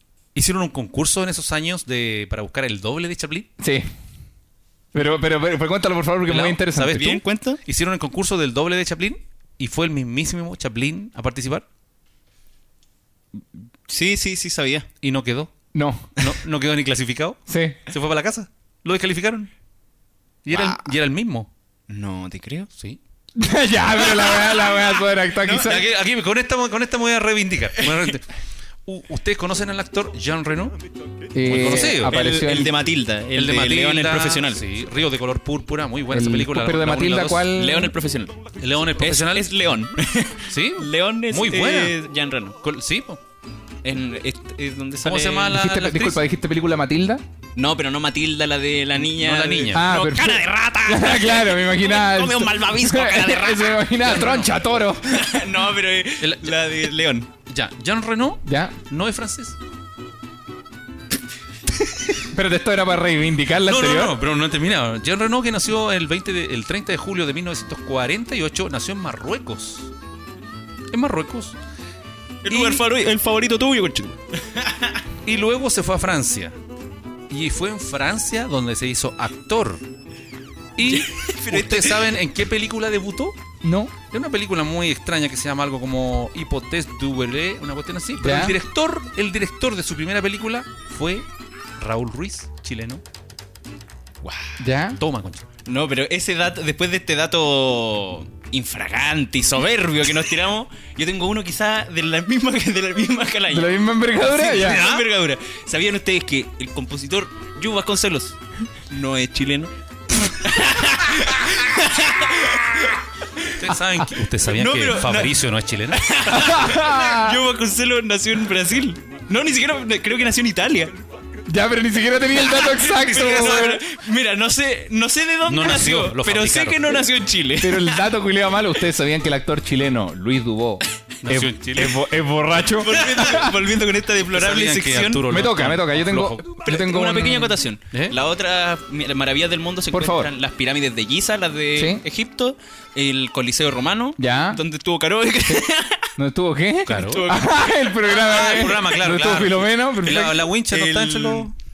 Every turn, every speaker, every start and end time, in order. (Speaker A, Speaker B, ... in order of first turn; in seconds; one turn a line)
Speaker A: 0.3-3.5
Speaker B: 3.6-3.9
Speaker B: 4.9-7.2
Speaker A: 6.3-11.7
Speaker C: 6.9-7.6
Speaker C: 13.9-14.9
Speaker A: 15.0-15.5
Speaker B: 15.7-16.2
Speaker A: 16.2-19.5
Speaker B: 17.5-17.8
Speaker A: 20.4-21.5
Speaker C: 20.5-20.9
Speaker C: 21.9-22.7
Speaker B: 23.4-25.9
Speaker A: 25.5-28.2
Speaker A: 28.9-30.8
Speaker B: 31.3-32.8
Speaker A: 31.4-32.2
Speaker C: 31.6-34.6
Speaker A: 33.3-37.5
Speaker B: 36.1-37.9
Speaker C: 37.5-38.4
Speaker A: 38.6-39.5
Speaker C: 39.0-42.6
Speaker A: 40.5-42.0
Speaker A: 42.6-43.2
Speaker C: 43.8-45.6
Speaker A: 45.0-46.2
Speaker B: 45.5-47.2
Speaker C: 47.6-54.1
Speaker A: 49.0-49.9
Speaker B: 49.7-55.4
Speaker A: 54.0-54.5
Speaker C: 55.1-57.3
Speaker A: 56.2-56.8
Speaker A: 57.5-59.6
Speaker B: 58.5-58.8
Speaker B: 62.2-64.2
Speaker A: 63.7-69.9
Speaker A: 70.9-71.6
Speaker C: 72.4-75.0
Speaker A: 72.5-72.8
Speaker A: 75.2-76.5
Speaker A: 77.3-79.8
Speaker A: 80.8-83.4
Speaker C: 80.8-82.2
Speaker B: 83.6-83.9
Speaker A: 84.1-91.3
Speaker B: 88.2-88.6
Speaker A: 91.8-93.0
Speaker C: 94.2-94.6
Speaker B: 94.6-95.0
Speaker A: 95.0-95.5
Speaker C: 95.7-108.4
Speaker B: 103.5-104.8
Speaker A: 104.4-105.1
Speaker C: 108.9-113.5
Speaker A: 113.5-116.1
Speaker C: 114.5-115.4
Speaker C: 115.9-120.9
Speaker B: 116.3-117.4
Speaker B: 121.5-123.8
Speaker C: 122.5-128.0
Speaker A: 122.9-123.7
Speaker A: 125.5-127.1
Speaker B: 127.6-133.6
Speaker A: 131.2-132.0
Speaker C: 132.8-135.3
Speaker A: 134.3-136.5
Speaker B: 135.3-137.6
Speaker C: 136.4-146.1
Speaker A: 137.9-138.2
Speaker B: 139.9-140.3
Speaker B: 141.8-142.0
Speaker B: 144.2-144.6
Speaker B: 145.5-150.4
Speaker A: 146.9-147.2
Speaker C: 146.9-148.6
Speaker A: 148.1-151.5
Speaker C: 150.7-151.5